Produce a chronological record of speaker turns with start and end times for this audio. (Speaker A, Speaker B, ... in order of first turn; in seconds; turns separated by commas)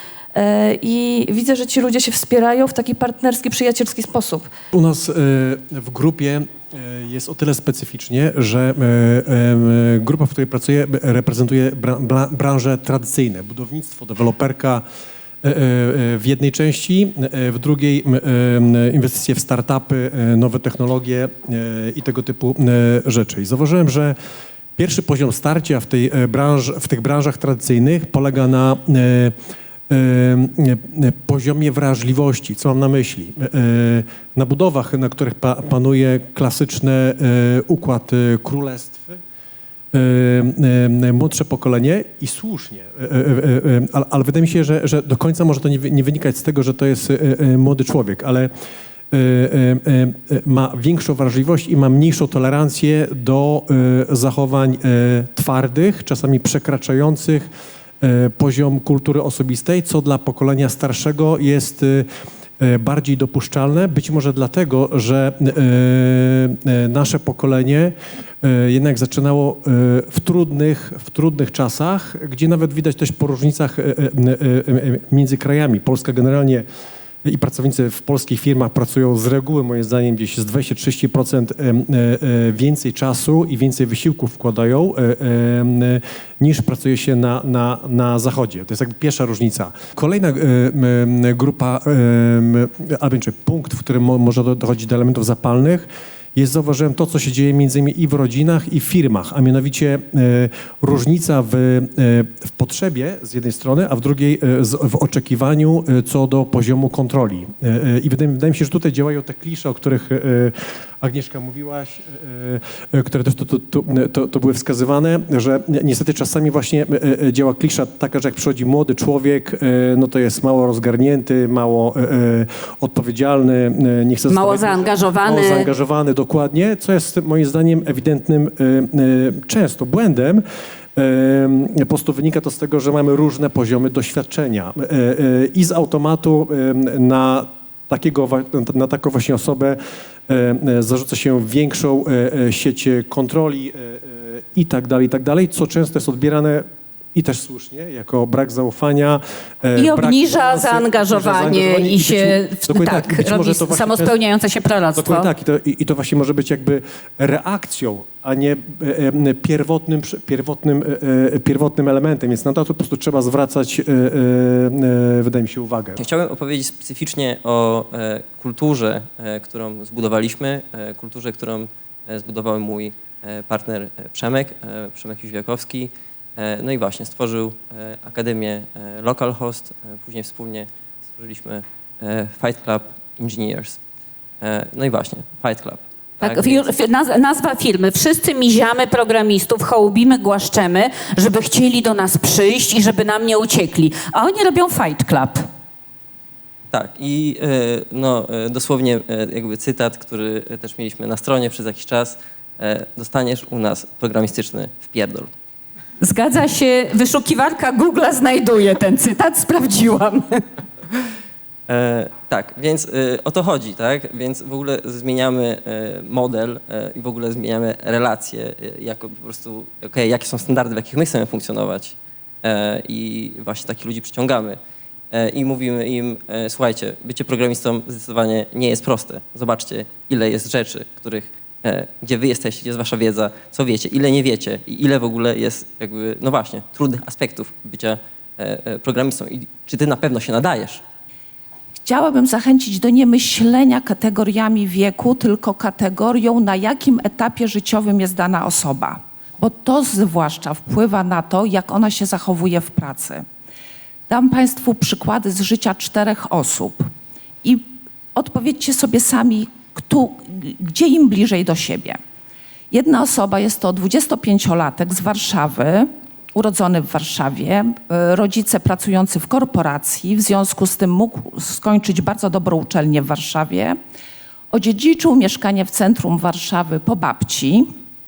Speaker A: 0.3-4.5, Speaker B: 4.7-14.8, Speaker B: 15.4-24.1, Speaker B: 24.8-29.3, Speaker B: 29.9-39.2, Speaker B: 39.9-48.5, Speaker B: 49.1-57.5, Speaker B: 58.0-62.0, Speaker B: 62.6-76.6, Speaker B: 77.2-130.4, Speaker C: 124.3-125.7, Speaker B: 131.0-139.8, Speaker B: 140.3-154.1, Speaker C: 149.8-155.3, Speaker B: 155.0-166.0, Speaker D: 166.0-183.8, Speaker D: 184.4-186.7, Speaker C: 186.2-195.4, Speaker D: 196.7-205.3, Speaker C: 206.0-210.4, Speaker D: 211.7-224.6, Speaker D: 225.1-240.8, Speaker E: 241.8-253.2, Speaker E: 254.1-256.8, Speaker E: 257.4-262.0, Speaker E: 262.7-273.8, Speaker E: 274.5-277.6